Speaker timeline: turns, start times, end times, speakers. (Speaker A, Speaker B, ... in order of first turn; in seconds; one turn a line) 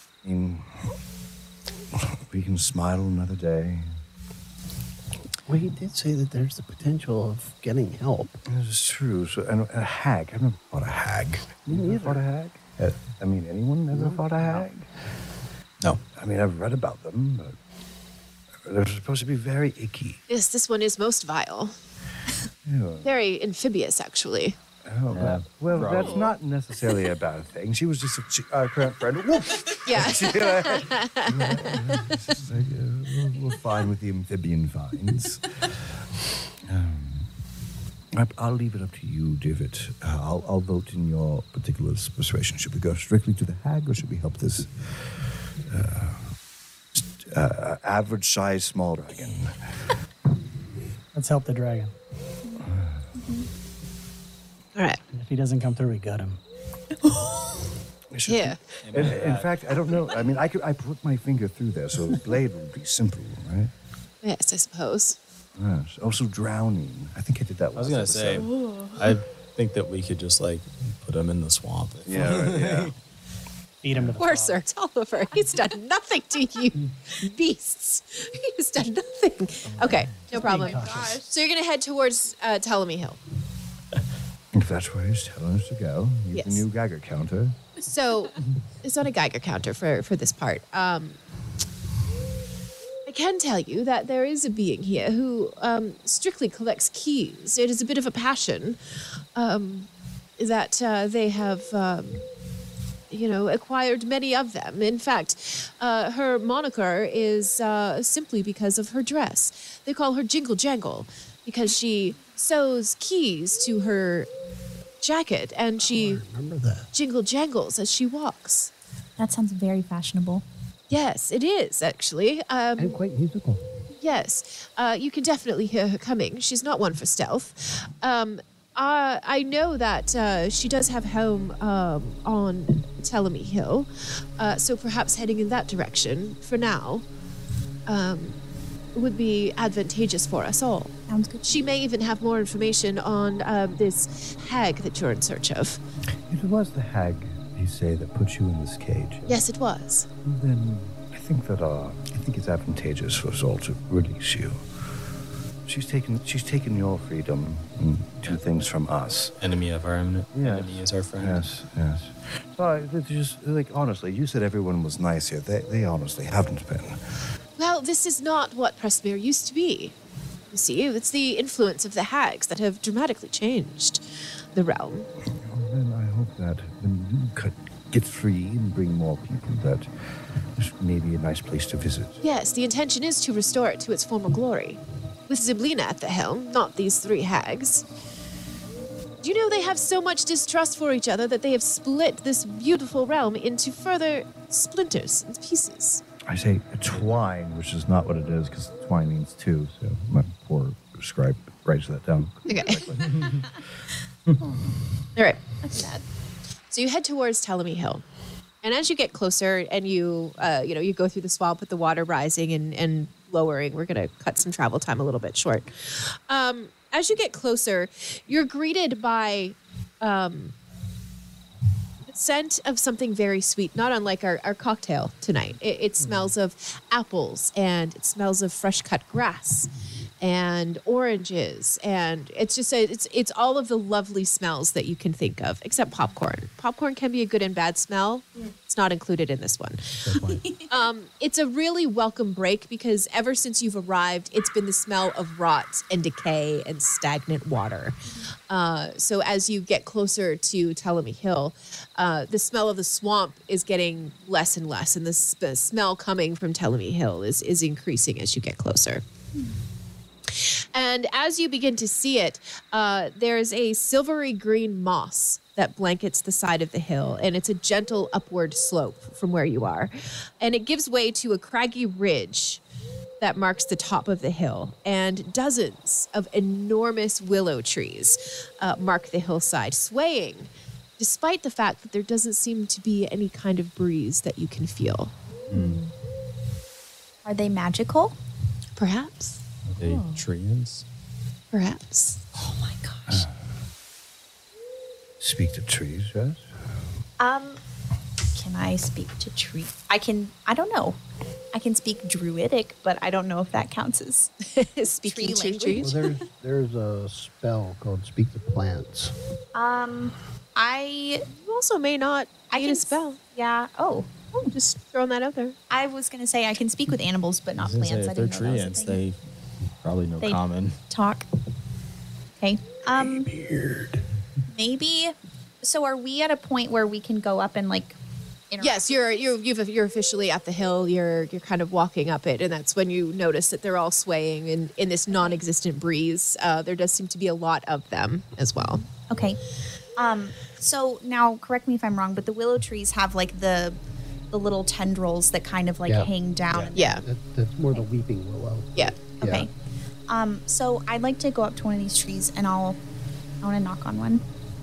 Speaker A: 0.2-0.8
Speaker A: 1.9-3.9
Speaker B: 5.5-8.4
Speaker A: 8.4-14.9
Speaker B: 11.7-12.2
Speaker B: 13.9-14.6
Speaker A: 16.1-17.6
Speaker A: 18.6-20.2
Speaker C: 20.3-21.7
Speaker A: 22.6-23.1
Speaker C: 23.0-24.6
Speaker A: 24.8-35.5
Speaker D: 25.1-26.2
Speaker C: 25.7-26.3
Speaker C: 29.8-32.1
Speaker A: 36.6-37.3
Speaker A: 38.1-46.3
Speaker A: 46.9-49.7
Speaker E: 51.1-51.9
Speaker F: 52.5-53.5
Speaker A: 52.6-53.0
Speaker C: 54.8-55.0
Speaker E: 55.1-56.4
Speaker A: 58.1-63.7
Speaker C: 58.3-58.6
Speaker D: 58.8-59.5
Speaker C: 64.2-65.2
Speaker A: 65.5-68.5
Speaker D: 67.8-72.9
Speaker F: 68.6-68.9
Speaker A: 72.0-72.9
Speaker E: 73.8-74.6
Speaker C: 74.2-83.2
Speaker B: 80.3-81.2
Speaker F: 80.3-81.3
Speaker A: 84.5-87.6
Speaker C: 86.3-86.6
Speaker C: 87.8-91.2
Speaker C: 93.0-98.8
Speaker C: 99.3-102.2
Speaker C: 103.1-114.3
Speaker C: 115.0-116.2
Speaker B: 115.8-116.9
Speaker C: 116.9-118.7
Speaker F: 119.2-120.4
Speaker C: 120.9-123.0
Speaker B: 122.8-123.7
Speaker C: 124.0-137.0
Speaker C: 137.9-138.4
Speaker C: 138.9-140.9
Speaker F: 141.1-141.7
Speaker C: 141.4-145.8
Speaker A: 146.3-149.4
Speaker C: 149.3-150.1
Speaker A: 150.2-154.6
Speaker A: 155.7-159.3
Speaker D: 159.4-161.4
Speaker A: 160.3-167.0
Speaker C: 167.6-169.9
Speaker C: 170.5-175.1
Speaker A: 175.4-179.9
Speaker A: 180.6-182.2
Speaker C: 182.2-187.8
Speaker C: 189.2-196.0
Speaker A: 196.2-203.2
Speaker C: 202.5-202.9
Speaker D: 203.0-203.4
Speaker F: 204.4-204.7
Speaker F: 205.6-206.0
Speaker C: 206.7-208.0
Speaker C: 208.6-220.5
Speaker C: 222.1-229.7
Speaker D: 226.0-226.3
Speaker C: 230.2-240.0
Speaker D: 240.0-240.4
Speaker F: 240.2-240.9
Speaker C: 240.7-248.0
Speaker C: 248.5-259.0
Speaker C: 260.3-272.6
Speaker C: 273.2-285.1
Speaker D: 285.5-285.8
Speaker F: 285.5-285.8
Speaker F: 287.2-288.2
Speaker C: 288.8-289.4
Speaker D: 289.7-290.8
Speaker F: 289.8-290.2
Speaker C: 291.5-292.2
Speaker F: 292.3-293.3
Speaker A: 295.2-296.4
Speaker F: 297.2-297.6
Speaker F: 298.3-301.0
Speaker F: 301.5-304.3
Speaker C: 304.4-306.0
Speaker F: 305.0-306.1
Speaker B: 305.8-309.1
Speaker F: 309.5-311.2
Speaker C: 311.3-313.2
Speaker F: 312.5-314.1
Speaker C: 314.3-315.6
Speaker F: 315.7-319.0
Speaker D: 317.6-319.2
Speaker D: 319.8-320.8
Speaker F: 320.2-321.2
Speaker F: 322.4-323.3
Speaker B: 322.9-324.0
Speaker F: 324.5-327.9
Speaker F: 328.5-329.2
Speaker C: 328.6-338.8
Speaker F: 335.1-335.4
Speaker F: 339.1-339.4
Speaker F: 340.0-343.8
Speaker F: 344.3-347.0
Speaker B: 345.9-346.1
Speaker C: 346.7-347.0
Speaker B: 346.9-349.5
Speaker F: 349.2-349.5
Speaker F: 350.1-352.8
Speaker F: 353.4-354.2